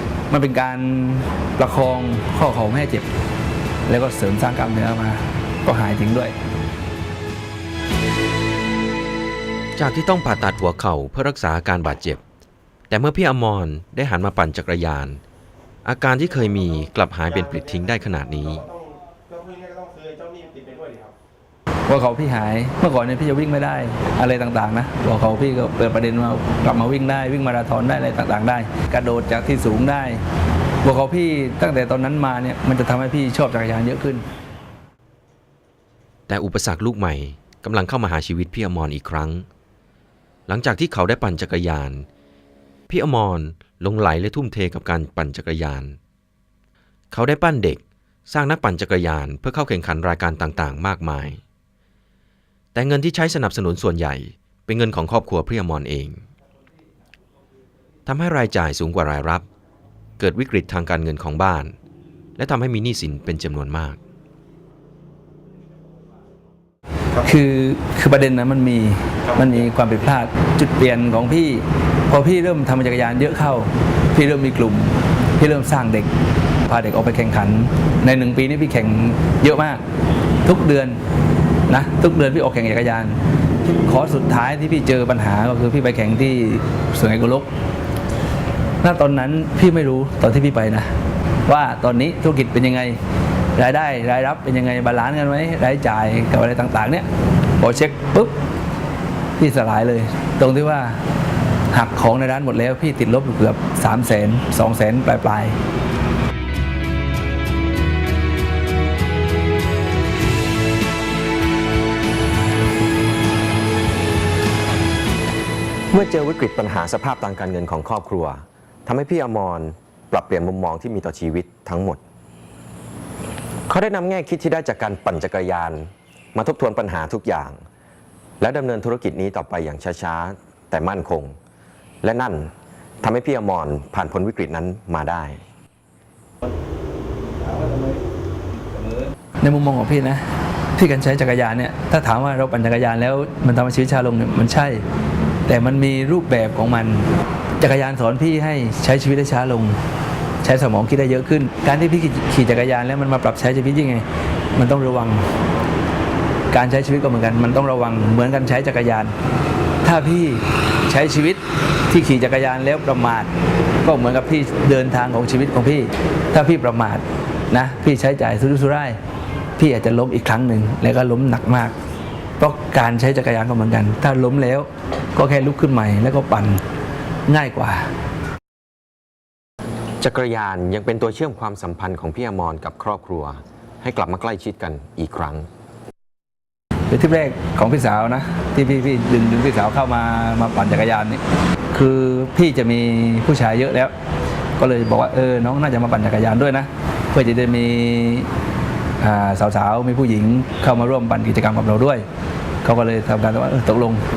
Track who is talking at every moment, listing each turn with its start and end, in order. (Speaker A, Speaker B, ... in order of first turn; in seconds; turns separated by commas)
Speaker A: 0.3-3.1, Speaker A: 3.9-6.4, Speaker B: 9.8-12.2, Speaker B: 12.9-15.2, Speaker B: 15.8-18.7, Speaker A: 21.9-30.2, Speaker A: 30.8-34.2, Speaker B: 36.3-39.5, Speaker B: 40.5-42.0, Speaker B: 42.9-46.0, Speaker B: 47.1-51.4, Speaker B: 52.8-56.2, Speaker B: 58.1-59.4, Speaker B: 60.2-61.7, Speaker B: 62.4-64.0, Speaker A: 67.2-76.1, Speaker A: 76.7-79.8, Speaker A: 80.4-81.0, Speaker A: 81.7-87.5, Speaker A: 88.8-90.9, Speaker A: 91.5-93.0, Speaker A: 93.5-97.1, Speaker A: 97.6-98.3, Speaker A: 99.4-101.0, Speaker A: 101.7-105.6, Speaker C: 115.9-122.0, Speaker C: 123.7-127.6, Speaker C: 128.4-131.3, Speaker C: 132.0-135.4, Speaker A: 139.4-140.2, Speaker A: 140.8-144.8, Speaker A: 145.5-147.1, Speaker A: 147.6-149.8, Speaker A: 150.4-155.2, Speaker A: 156.5-159.1, Speaker A: 159.8-169.0, Speaker A: 169.6-171.7, Speaker A: 172.4-176.6, Speaker A: 177.3-177.9, Speaker C: 180.0-185.5, Speaker A: 186.9-191.2, Speaker A: 191.7-193.9, Speaker A: 194.6-198.3, Speaker A: 199.0-202.0, Speaker A: 202.6-204.0